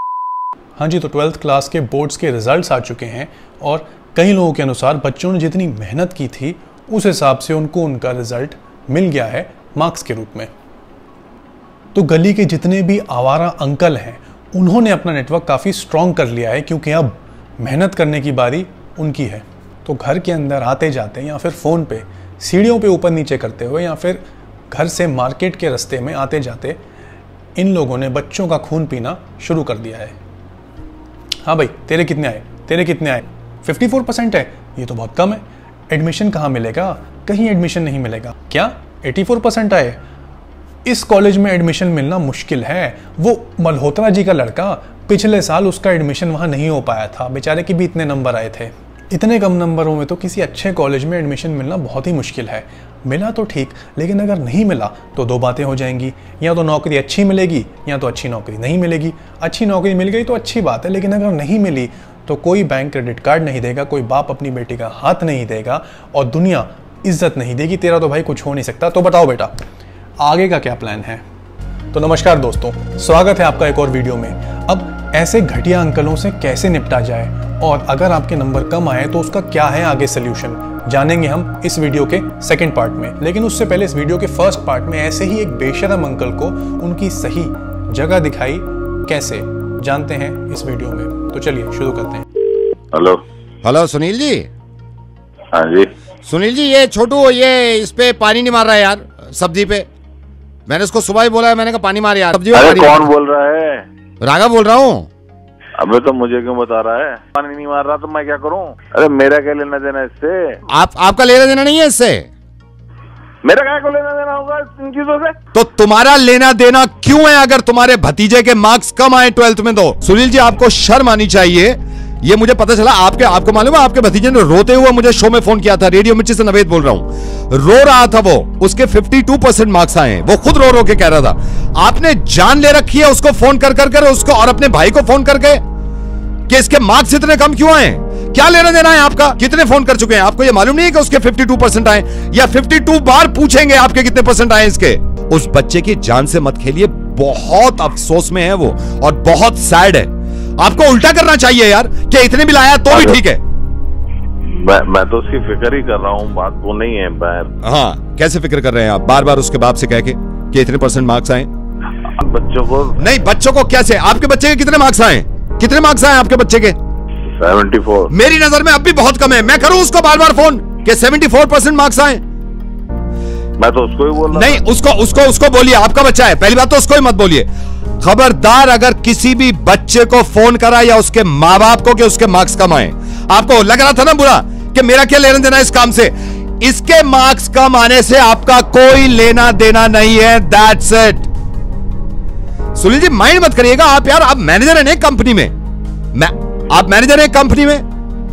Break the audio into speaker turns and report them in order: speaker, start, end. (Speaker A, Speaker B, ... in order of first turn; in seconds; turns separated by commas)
Speaker A: 0.8-10.5, Speaker A: 11.9-26.8, Speaker A: 27.6-30.1, Speaker A: 31.4-40.0, Speaker A: 40.8-69.5, Speaker A: 70.2-71.2, Speaker A: 71.9-92.2, Speaker B: 92.9-93.2, Speaker C: 93.6-94.5, Speaker B: 95.5-95.9, Speaker C: 96.2-99.8, Speaker C: 100.7-103.0, Speaker B: 102.5-103.8, Speaker C: 104.2-105.1, Speaker B: 105.8-110.6, Speaker C: 110.7-112.3, Speaker B: 113.4-115.4, Speaker C: 115.5-135.6, Speaker C: 136.5-153.4, Speaker B: 152.9-153.2, Speaker B: 154.4-157.5, Speaker C: 157.6-161.5, Speaker B: 162.1-163.0, Speaker C: 163.0-166.8, Speaker B: 167.2-168.1, Speaker C: 168.1-172.2, Speaker B: 173.6-174.6, Speaker C: 174.3-177.5, Speaker C: 178.0-191.3, Speaker C: 192.7-195.5, Speaker C: 196.1-197.8